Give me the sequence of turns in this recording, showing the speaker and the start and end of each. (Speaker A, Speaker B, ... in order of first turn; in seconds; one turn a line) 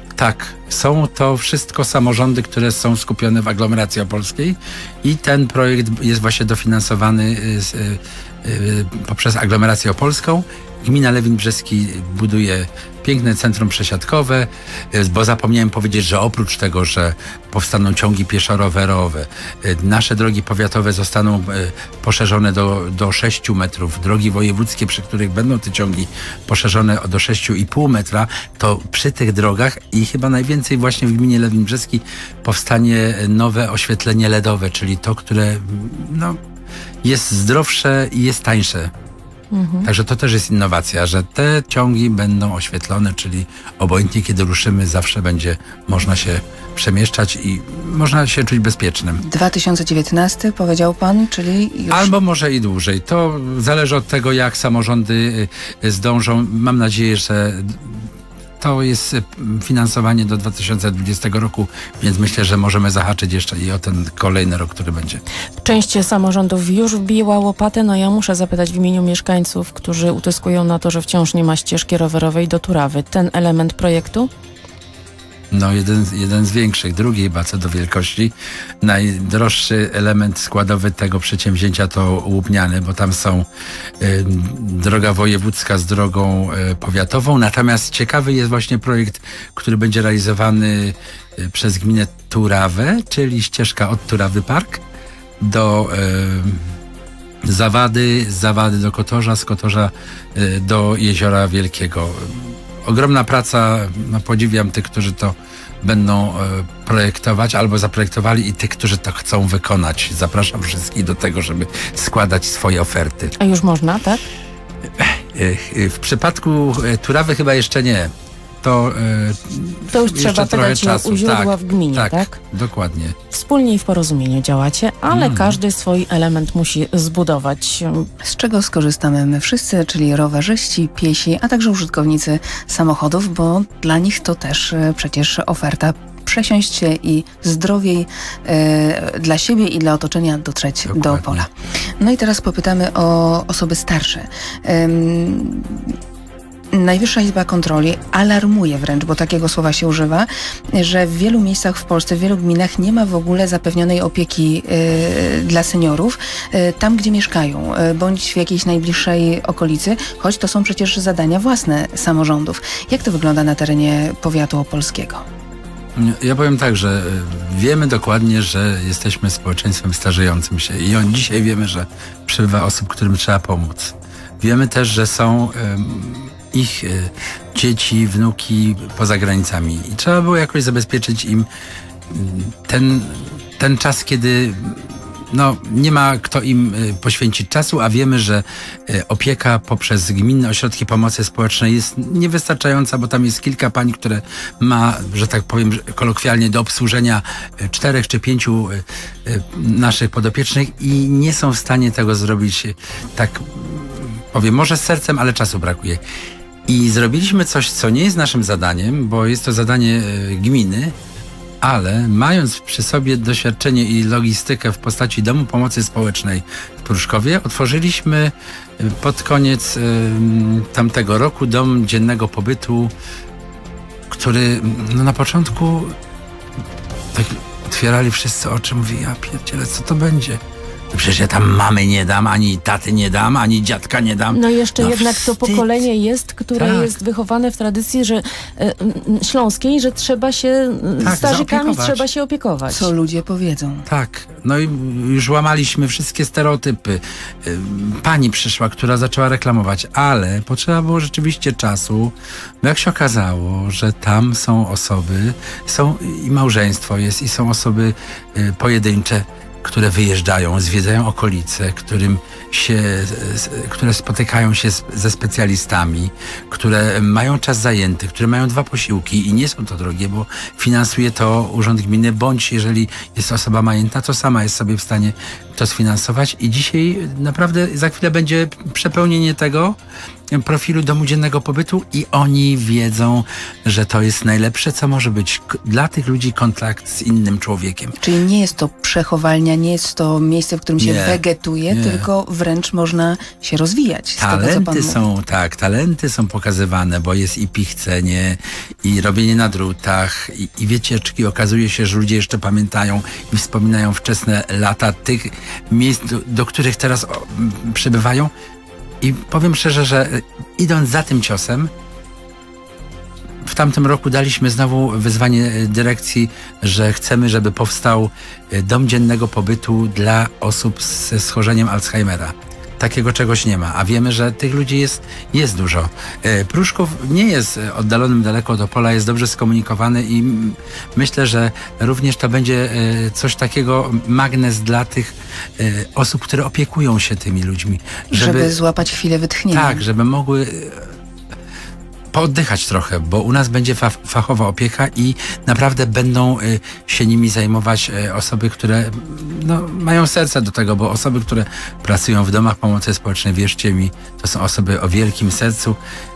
Speaker A: 0.2-36.4
Speaker A: 37.0-38.9
Speaker B: 39.5-39.9
Speaker A: 39.8-49.2
Speaker C: 49.2-52.1
Speaker A: 51.9-58.1
Speaker A: 58.6-65.2
Speaker B: 65.6-74.3
Speaker A: 75.5-83.5
Speaker A: 84.0-94.8
Speaker A: 95.4-96.7
Speaker A: 97.5-113.3
Speaker B: 113.4-114.2
Speaker A: 115.0-118.1
Speaker A: 118.6-123.2
Speaker B: 119.9-122.4
Speaker B: 123.3-128.1
Speaker A: 125.1-125.6
Speaker C: 128.2-145.9
Speaker A: 140.9-141.4
Speaker C: 146.7-165.2
Speaker A: 166.0-181.5
Speaker A: 182.1-206.0
Speaker A: 206.7-210.9
Speaker A: 211.6-222.9
Speaker A: 224.1-225.9
Speaker A: 227.1-230.4
Speaker A: 230.9-235.7
Speaker B: 234.3-242.9
Speaker A: 236.6-237.0
Speaker A: 241.0-242.0
Speaker C: 242.7-243.8
Speaker A: 243.9-279.8
Speaker A: 280.3-288.0
Speaker C: 288.0-295.0
Speaker A: 290.8-292.1
Speaker A: 294.2-308.3
Speaker A: 309.0-311.7
Speaker A: 313.4-338.6
Speaker C: 338.1-339.8
Speaker A: 339.5-341.0
Speaker A: 342.1-355.8